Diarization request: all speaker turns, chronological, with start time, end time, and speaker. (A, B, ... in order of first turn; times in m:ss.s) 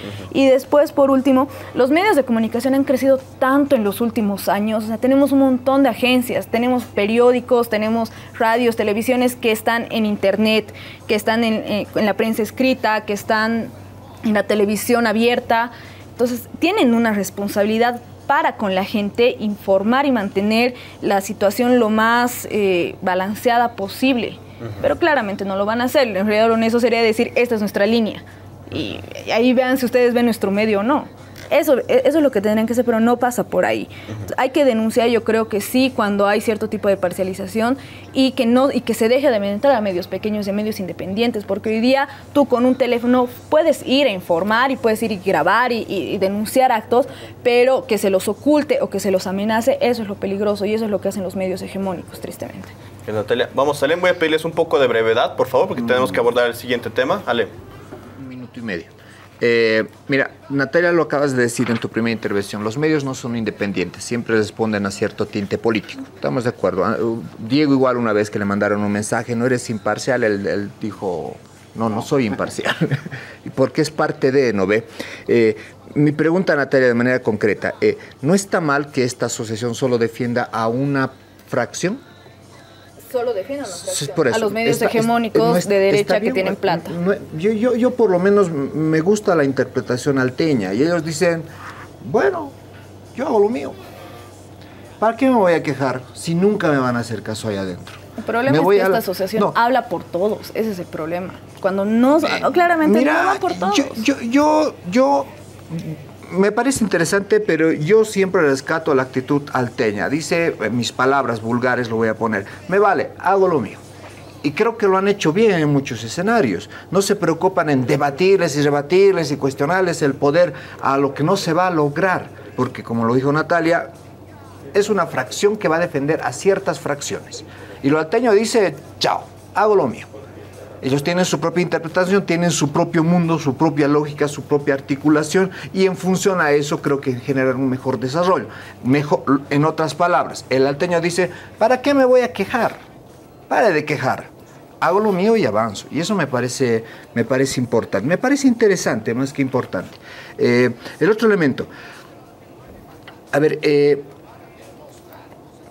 0:00.3-0:13.7 A
0:14.2-0:52.7 A
0:53.1-0:57.5 B
0:58.2-1:22.0 C
1:23.1-1:26.9 A
1:23.7-1:31.5 C
1:32.0-1:32.6 C
1:33.2-1:33.8 C
1:35.0-1:39.6 C
1:38.2-1:44.0 A
1:42.2-1:53.8 C
1:54.4-2:03.9 C
2:04.7-2:10.1 C
2:10.8-2:22.8 C
2:23.5-2:31.7 C
2:33.3-2:34.1 C